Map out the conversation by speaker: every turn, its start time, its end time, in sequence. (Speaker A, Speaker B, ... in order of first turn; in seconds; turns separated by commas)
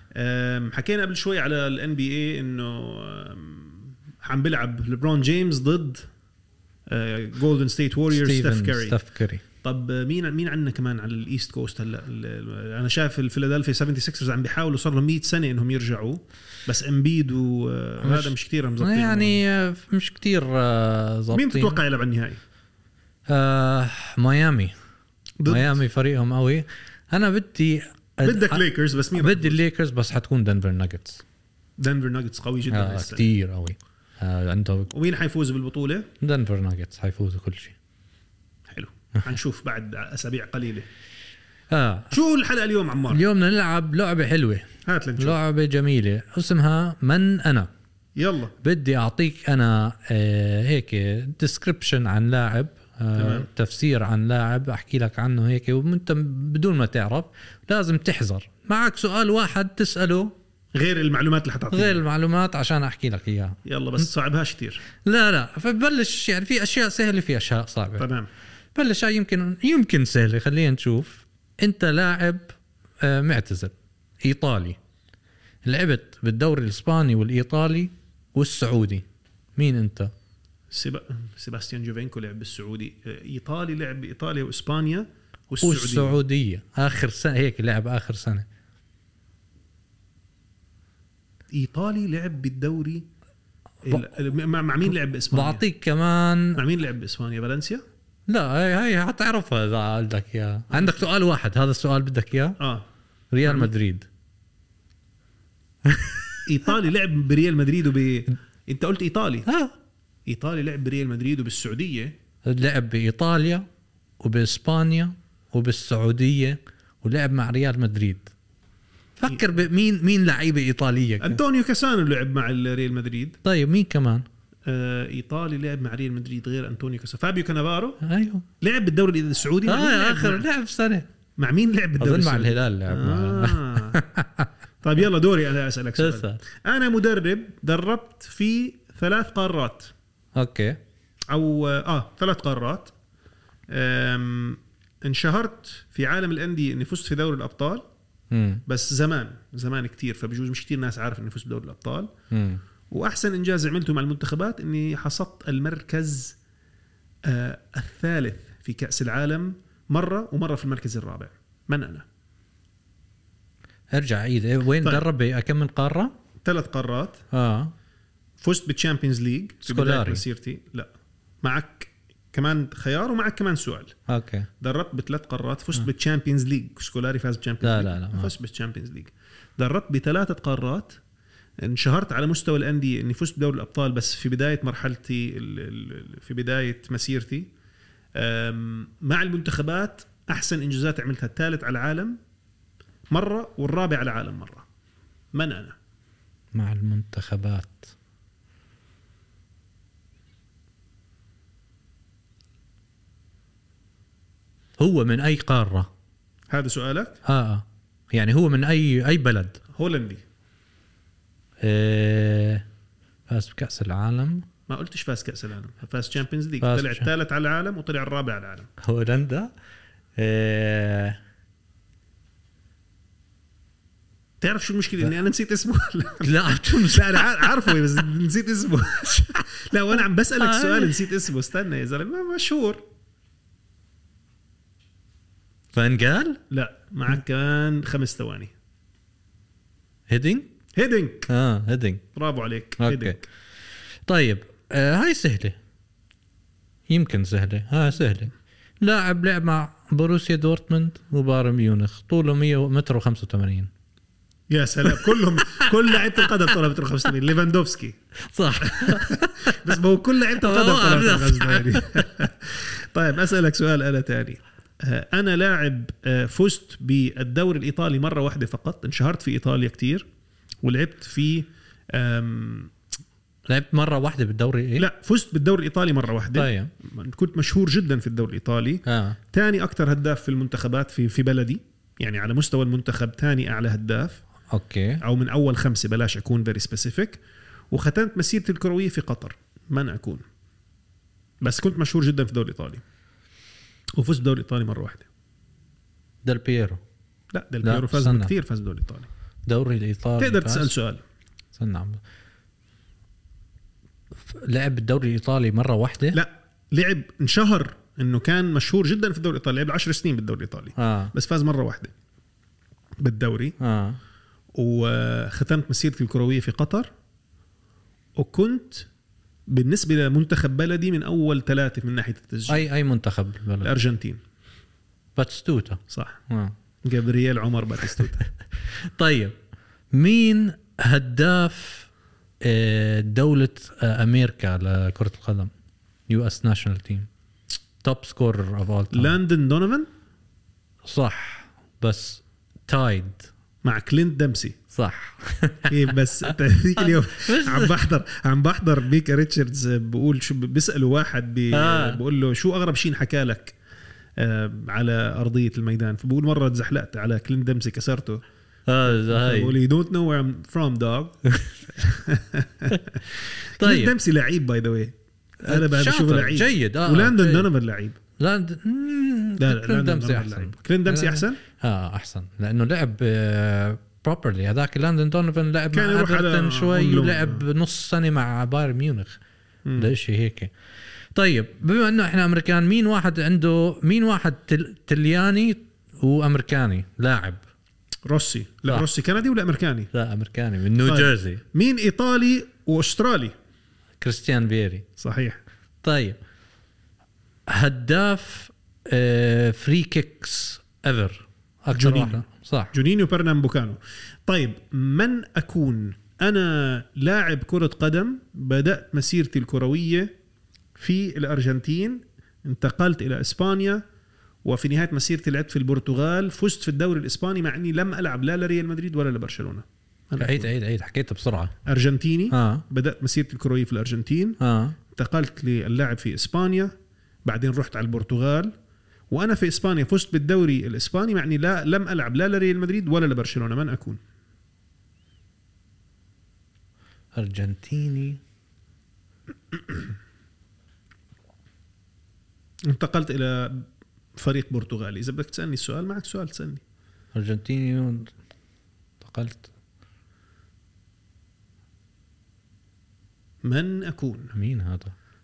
Speaker A: 0.1-6.0, Speaker A: 6.9-9.0, Speaker B: 8.1-9.4, Speaker A: 9.6-19.4, Speaker B: 18.0-21.8, Speaker A: 21.3-22.4, Speaker B: 23.3-24.7, Speaker A: 25.4-25.7, Speaker B: 25.4-28.6, Speaker A: 28.2-29.6, Speaker B: 29.1-31.2, Speaker A: 31.8-33.3, Speaker B: 32.7-34.9, Speaker A: 34.9-36.1, Speaker B: 36.2-37.7, Speaker A: 38.7-40.9, Speaker B: 41.7-42.1, Speaker A: 42.1-43.2, Speaker B: 43.1-44.6, Speaker A: 44.9-45.4, Speaker B: 45.2-47.7, Speaker A: 48.2-48.5, Speaker B: 48.6-60.3, Speaker A: 53.1-53.5, Speaker A: 60.7-62.0, Speaker B: 61.7-63.6, Speaker A: 63.6-64.8, Speaker B: 65.0-68.1, Speaker A: 68.0-68.3, Speaker B: 68.7-73.7, Speaker B: 74.2-74.8, Speaker B: 75.6-79.0, Speaker B: 79.6-80.1, Speaker A: 80.7-86.2, Speaker B: 85.6-88.4, Speaker A: 91.5-93.0, Speaker A: 93.8-95.6, Speaker B: 95.3-96.6, Speaker A: 96.6-97.8, Speaker B: 98.3-102.6, Speaker A: 100.7-101.0, Speaker A: 102.6-102.9, Speaker B: 103.3-104.0, Speaker A: 103.4-103.7, Speaker B: 105.9-106.4, Speaker A: 106.4-109.5, Speaker B: 109.5-109.7, Speaker A: 110.2-112.1, Speaker B: 112.5-113.7, Speaker B: 114.2-118.3, Speaker B: 119.2-121.4, Speaker A: 121.2-123.4, Speaker B: 123.4-124.2, Speaker A: 124.7-128.0, Speaker B: 128.0-128.4, Speaker A: 128.6-130.4, Speaker B: 129.6-131.1, Speaker A: 131.4-134.0, Speaker B: 132.0-134.5, Speaker A: 134.8-139.9, Speaker B: 136.0-136.4, Speaker B: 140.3-140.8, Speaker A: 141.3-142.9, Speaker A: 143.7-147.8, Speaker B: 148.3-148.6, Speaker A: 148.7-152.1, Speaker B: 152.3-152.6, Speaker A: 152.9-156.3, Speaker A: 157.3-162.0, Speaker B: 163.9-166.1, Speaker A: 166.4-167.2, Speaker B: 167.3-167.7, Speaker A: 168.4-170.9, Speaker B: 169.6-170.2, Speaker A: 171.4-173.9, Speaker B: 174.1-174.5, Speaker A: 174.6-181.0, Speaker B: 177.6-178.3, Speaker A: 181.6-187.5, Speaker A: 188.2-192.2, Speaker A: 193.1-194.7, Speaker A: 195.3-195.8, Speaker B: 196.5-197.9, Speaker B: 204.8-205.9, Speaker A: 206.5-207.2, Speaker B: 207.2-209.6, Speaker A: 209.7-210.2, Speaker B: 211.6-212.6, Speaker B: 213.3-214.4, Speaker A: 214.7-218.7, Speaker B: 216.6-217.1, Speaker B: 218.8-219.5, Speaker B: 220.2-221.2, Speaker A: 224.4-232.8, Speaker B: 226.2-227.8, Speaker B: 230.4-231.1, Speaker B: 235.7-236.4, Speaker A: 236.5-238.5, Speaker B: 240.1-240.5, Speaker A: 240.8-241.3, Speaker B: 241.3-242.0, Speaker A: 242.1-243.2, Speaker B: 242.8-243.2, Speaker B: 244.1-245.6, Speaker B: 246.9-253.7, Speaker A: 254.5-257.9, Speaker B: 255.5-256.5, Speaker B: 258.3-259.6, Speaker A: 258.6-270.0, Speaker B: 260.4-262.1, Speaker A: 270.6-272.7, Speaker B: 273.5-274.9, Speaker A: 274.8-284.2, Speaker B: 276.3-276.7, Speaker B: 278.9-279.2, Speaker B: 284.5-285.0, Speaker A: 285.0-287.2, Speaker A: 287.7-290.2, Speaker A: 291.4-292.8, Speaker A: 294.0-295.1, Speaker B: 296.2-296.8, Speaker A: 297.3-299.1, Speaker B: 297.6-298.3, Speaker B: 299.5-300.7, Speaker A: 300.2-301.0, Speaker B: 301.6-302.0, Speaker B: 304.3-306.2, Speaker A: 306.1-311.9, Speaker B: 310.8-311.1, Speaker A: 313.0-313.6, Speaker B: 313.6-314.0, Speaker A: 314.5-316.9, Speaker A: 318.2-318.9, Speaker A: 319.5-322.6, Speaker B: 322.5-323.7, Speaker A: 323.6-324.2, Speaker B: 325.1-326.5, Speaker A: 325.9-326.2, Speaker A: 326.8-328.2, Speaker B: 328.9-329.3, Speaker B: 329.9-331.9, Speaker B: 332.4-335.5, Speaker B: 336.1-337.1, Speaker B: 337.8-339.2, Speaker A: 338.9-339.9, Speaker B: 340.9-343.3, Speaker A: 343.6-344.6, Speaker B: 344.7-345.7, Speaker A: 345.7-353.6, Speaker B: 347.1-347.8, Speaker B: 351.5-352.0, Speaker A: 354.2-358.2, Speaker B: 358.7-359.5, Speaker A: 358.8-361.1, Speaker B: 361.3-361.6, Speaker A: 361.7-363.0, Speaker B: 363.6-363.9, Speaker A: 363.6-368.0, Speaker B: 365.4-367.5, Speaker B: 368.2-379.2, Speaker A: 369.4-371.4, Speaker A: 375.7-377.4, Speaker A: 379.6-379.9, Speaker B: 379.8-380.5, Speaker B: 381.1-387.4, Speaker A: 388.1-389.9, Speaker B: 389.9-391.4, Speaker A: 390.8-393.3, Speaker B: 394.0-394.8, Speaker A: 395.0-395.4, Speaker B: 395.8-396.2, Speaker B: 397.5-402.7, Speaker A: 401.7-402.2, Speaker A: 402.7-410.1, Speaker A: 410.8-413.8, Speaker A: 414.4-420.5, Speaker B: 420.2-421.5, Speaker A: 421.6-424.4, Speaker B: 422.3-422.6, Speaker B: 424.4-424.8, Speaker A: 424.9-426.7, Speaker A: 427.2-428.5, Speaker A: 429.1-434.0, Speaker B: 437.2-438.2, Speaker A: 442.7-443.6, Speaker A: 444.2-446.6, Speaker B: 447.1-448.1, Speaker B: 449.0-449.5, Speaker A: 453.4-454.3, Speaker B: 454.3-454.9